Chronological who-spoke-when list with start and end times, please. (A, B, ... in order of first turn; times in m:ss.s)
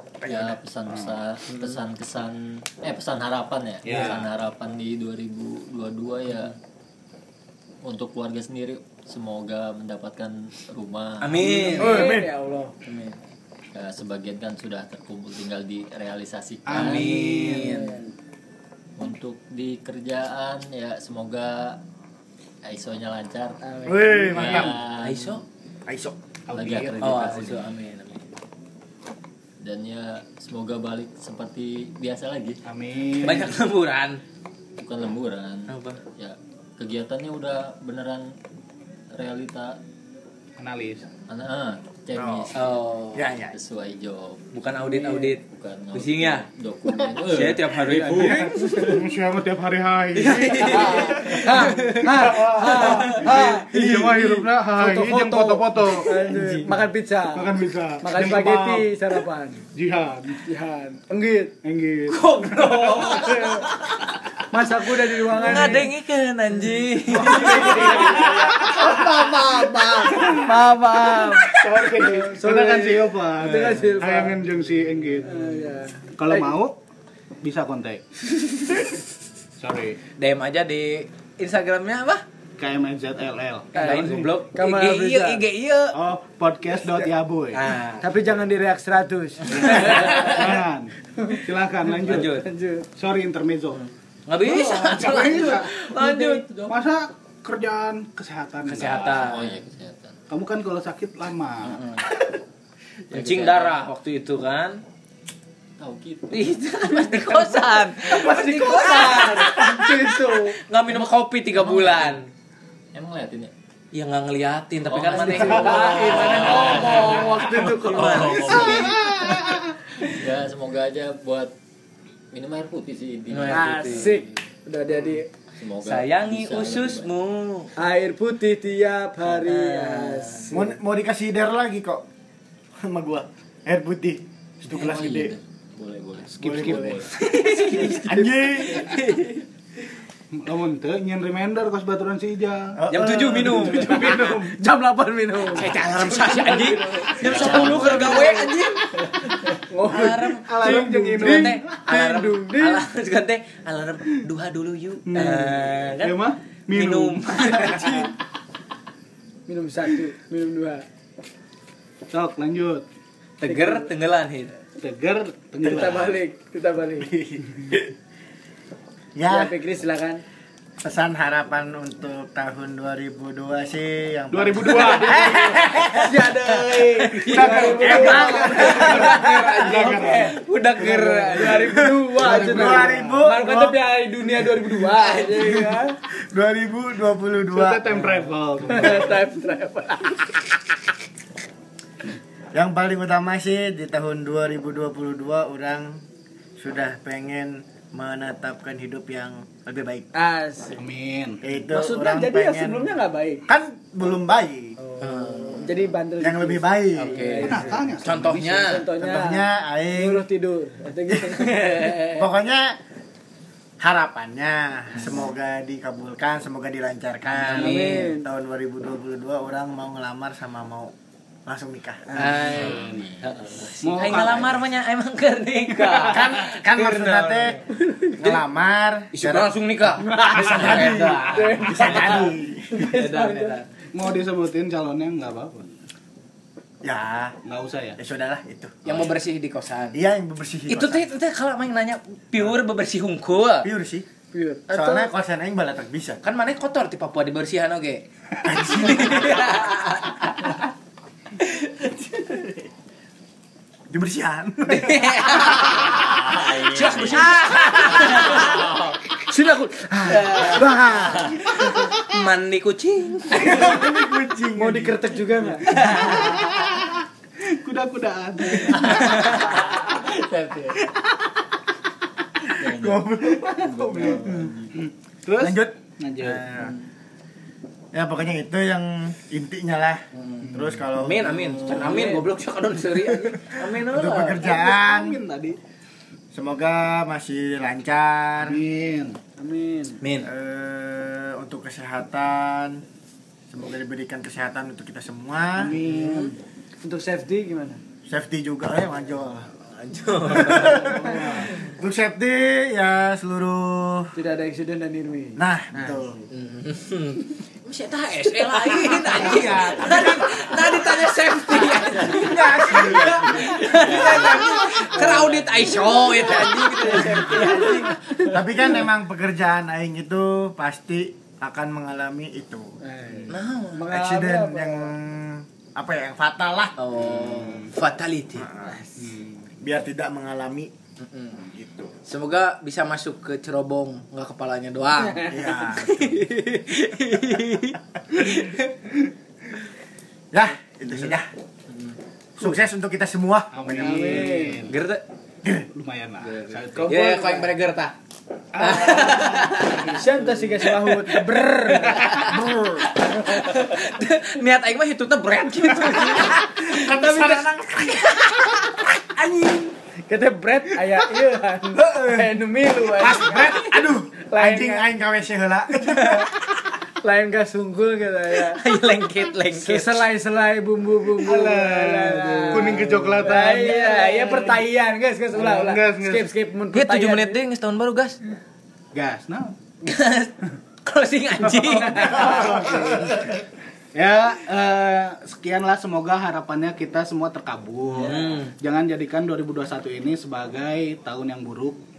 0:00.2-0:00.6 A
0:00.2-0:06.6 B
0:00.9-0:01.2 C
0:03.8-0:04.4 C
0:07.8-0:11.5 B
0:11.2-0:12.2 D
0:11.4-0:12.7 E
0:11.8-0:12.3 A
0:12.8-0:13.2 D
0:13.7-0:17.3 B
0:16.6-0:17.9 C
0:16.7-0:17.9 D
0:17.5-0:18.1 E
0:19.0-0:21.8 B
0:22.6-0:23.6 B
0:23.6-0:24.7 E
0:23.8-0:24.8 A
0:24.3-0:25.4 B
0:24.3-0:24.8 C
0:25.0-0:25.4 D
0:25.9-0:26.2 A
0:26.5-0:27.4 C
0:26.5-0:27.6 B
0:27.0-0:28.2 D
0:29.6-0:32.6 B
0:32.6-0:33.6 C
0:33.2-0:34.2 D
0:34.8-0:38.3 B
0:35.7-0:36.0 D
0:39.1-0:39.8 B
0:40.6-0:41.1 C
0:41.3-0:42.8 B
0:42.1-0:42.5 A
0:42.5-0:43.3 D
0:43.1-0:43.5 A
0:43.5-0:48.6 B
0:44.5-0:46.4 D
0:47.2-0:49.1 D
0:48.0-0:56.3 C
0:48.5-0:49.0 E
0:50.1-0:54.4 D
0:50.5-0:59.6 E
0:56.2-0:56.6 D
0:57.3-0:58.9 C
0:59.7-1:00.4 C
1:00.4-1:01.5 E
1:01.6-1:03.2 C
1:02.1-1:04.1 D
1:03.0-1:03.7 E
1:04.5-1:05.9 E
1:05.2-1:08.7 D
1:07.1-1:14.4 E
1:07.2-1:09.4 C
1:09.8-1:11.9 D
1:10.1-1:10.5 C
1:11.5-1:15.5 C
1:13.4-1:14.0 D
1:15.2-1:16.6 E
1:16.2-1:16.8 C
1:17.4-1:18.0 C
1:19.6-1:20.0 C
1:20.2-1:22.2 D
1:22.6-1:24.3 C
1:23.7-1:25.4 E
1:23.7-1:26.0 D
1:25.9-1:27.6 C
1:27.0-1:28.0 D
1:28.0-1:30.5 E
1:29.4-1:30.6 D
1:29.5-1:30.9 C
1:31.2-1:31.4 E
1:31.4-1:32.4 C
1:32.0-1:32.4 D
1:32.1-1:32.9 E
1:32.9-1:33.8 C
1:33.7-1:36.6 D
1:34.5-1:35.7 C
1:34.8-1:36.7 B
1:36.7-1:39.4 C
1:38.7-1:39.6 D
1:38.9-1:40.2 B
1:40.3-1:41.8 C
1:41.6-1:42.2 D
1:43.1-1:43.9 B
1:43.1-1:44.8 D
1:45.8-1:47.6 B
1:46.3-1:52.3 D
1:48.0-1:50.6 E
1:51.5-1:52.2 B
1:52.9-1:53.5 B
1:53.9-1:59.0 D
1:54.8-2:01.5 B
1:55.1-1:59.0 E
1:58.6-1:59.6 C
2:02.3-2:04.3 B
2:03.3-2:04.1 D
2:03.5-2:05.3 E
2:05.6-2:07.1 B
2:05.8-2:07.7 D
2:07.8-2:10.7 E
2:09.2-2:10.4 D
2:10.5-2:12.0 A
2:12.8-2:15.3 A
2:14.6-2:17.1 B
2:16.3-2:17.1 C
2:16.4-2:17.0 A
2:17.2-2:19.4 D
2:17.9-2:18.9 A
2:20.3-2:22.8 C
2:22.7-2:23.8 A
2:22.9-2:24.4 D
2:23.6-2:24.5 C
2:23.6-2:32.8 E
2:25.5-2:38.1 D
2:25.7-2:26.7 A
2:27.1-2:28.5 B
2:30.4-2:31.6 C
2:35.1-2:37.8 C
2:35.2-2:35.6 E
2:37.7-2:38.1 E
2:39.5-2:40.8 E
2:42.1-2:42.8 C
2:43.4-2:43.9 E
2:43.4-2:44.5 D
2:44.8-2:46.2 C
2:45.6-2:47.1 E
2:47.0-2:47.8 A
2:49.2-2:49.5 A
2:49.2-2:50.2 E
2:50.8-2:56.3 A
2:54.3-2:55.5 C
2:55.1-2:59.7 E
2:57.0-3:02.6 D
2:57.3-3:00.4 C
2:57.5-2:59.3 A
3:00.8-3:06.0 E
3:02.1-3:03.8 A
3:02.2-3:03.1 C
3:05.0-3:05.7 D
3:06.1-3:08.1 A
3:07.5-3:09.2 C
3:08.7-3:10.3 E
3:12.5-3:16.0 A
3:16.6-3:20.0 A
3:20.1-3:20.8 E
3:20.8-3:21.4 C
3:21.4-3:22.9 A
3:21.7-3:23.4 E
3:23.5-3:24.8 A
3:24.8-3:31.9 E
3:25.0-3:25.7 D
3:26.2-3:27.4 A
3:27.0-3:28.8 D
3:27.4-3:28.7 C
3:29.0-3:30.2 A
3:31.1-3:32.7 A
3:31.4-3:32.2 D
3:33.8-3:40.9 A
3:37.3-3:38.1 D
3:37.5-3:38.3 E
3:37.6-3:38.0 C
3:41.4-3:42.2 A
3:42.1-3:47.6 D
3:42.5-3:43.0 C
3:42.5-3:43.7 B
3:43.8-3:44.6 C
3:46.1-3:47.6 A
3:48.2-3:49.5 A
3:49.1-3:53.7 D
3:50.0-3:53.6 E
3:51.6-3:52.7 A
3:53.9-3:55.7 C
3:56.8-3:57.3 A
3:57.4-3:58.0 C
3:58.0-3:59.1 A
3:58.8-4:00.0 D
3:59.9-4:01.1 A
4:00.7-4:03.7 D
4:03.6-4:04.0 A
4:04.3-4:05.1 E
4:04.7-4:06.2 A
4:06.2-4:10.7 D
4:08.4-4:09.6 A
4:11.4-4:12.4 D
4:13.9-4:15.7 A
4:14.7-4:18.7 D
4:15.8-4:17.4 B
4:18.4-4:19.0 B
4:19.2-4:21.9 E
4:20.1-4:23.8 D
4:23.3-4:25.0 A
4:24.5-4:26.4 E
4:25.6-4:29.6 C
4:25.7-4:26.4 D
4:28.7-4:29.6 D
4:29.8-4:30.7 B
4:32.6-4:34.7 B
4:32.6-4:34.6 A
4:34.7-4:36.4 C
4:35.4-4:36.7 A
4:37.9-4:42.1 A
4:40.1-4:44.5 D
4:40.4-4:40.8 C
4:41.7-4:42.2 E
4:43.3-4:45.2 A
4:44.4-4:45.6 C
4:46.3-4:48.6 A
4:48.4-4:49.2 C
4:49.4-4:50.0 E
4:50.0-4:50.3 D
4:50.2-4:52.8 A
4:53.5-4:55.8 A
4:55.6-4:56.3 C
4:55.9-4:56.3 D
4:56.8-4:57.8 E
4:58.1-4:59.5 A
4:59.7-5:01.7 D
5:00.3-5:04.1 A
5:00.7-5:01.5 E
5:01.1-5:01.5 C
5:04.1-5:06.0 E
5:05.4-5:06.2 A
5:06.3-5:18.2 D
5:08.6-5:11.1 A
5:11.8-5:14.5 A
5:13.1-5:18.8 E
5:18.3-5:22.7 A
5:22.8-5:24.9 E
5:23.3-5:23.8 D
5:23.9-5:26.8 A
5:26.8-5:28.5 D
5:27.0-5:27.7 C
5:28.4-5:28.8 A
5:29.0-5:29.5 C
5:29.6-5:30.7 A
5:31.0-5:31.4 D
5:31.4-5:31.9 A
5:32.0-5:38.7 D
5:35.0-5:35.3 E
5:35.3-5:36.3 A
5:40.3-5:41.3 A
5:40.9-5:41.2 D
5:42.4-5:44.4 A
5:43.5-5:44.8 C
5:43.8-5:44.7 E
5:44.7-5:45.0 D
5:45.7-5:46.9 C
5:46.2-5:47.9 D
5:46.8-5:47.5 E
5:48.5-5:50.7 C
5:48.6-5:50.0 D
5:49.9-5:52.2 E
5:50.6-5:58.8 D
5:52.2-5:52.9 A
5:56.3-5:59.7 A
6:00.1-6:04.9 E
6:01.7-6:02.3 A
6:02.9-6:06.3 A
6:05.8-6:06.3 D
6:07.0-6:08.6 E
6:08.4-6:10.1 D
6:09.5-6:17.4 E
6:11.1-6:14.6 C
6:15.3-6:16.3 C
6:16.7-6:18.2 D
6:18.9-6:19.6 C
6:19.8-6:23.2 D
6:21.4-6:23.2 C
6:21.8-6:23.0 E
6:22.3-6:22.8 A
6:23.9-6:31.8 C
6:27.9-6:28.5 D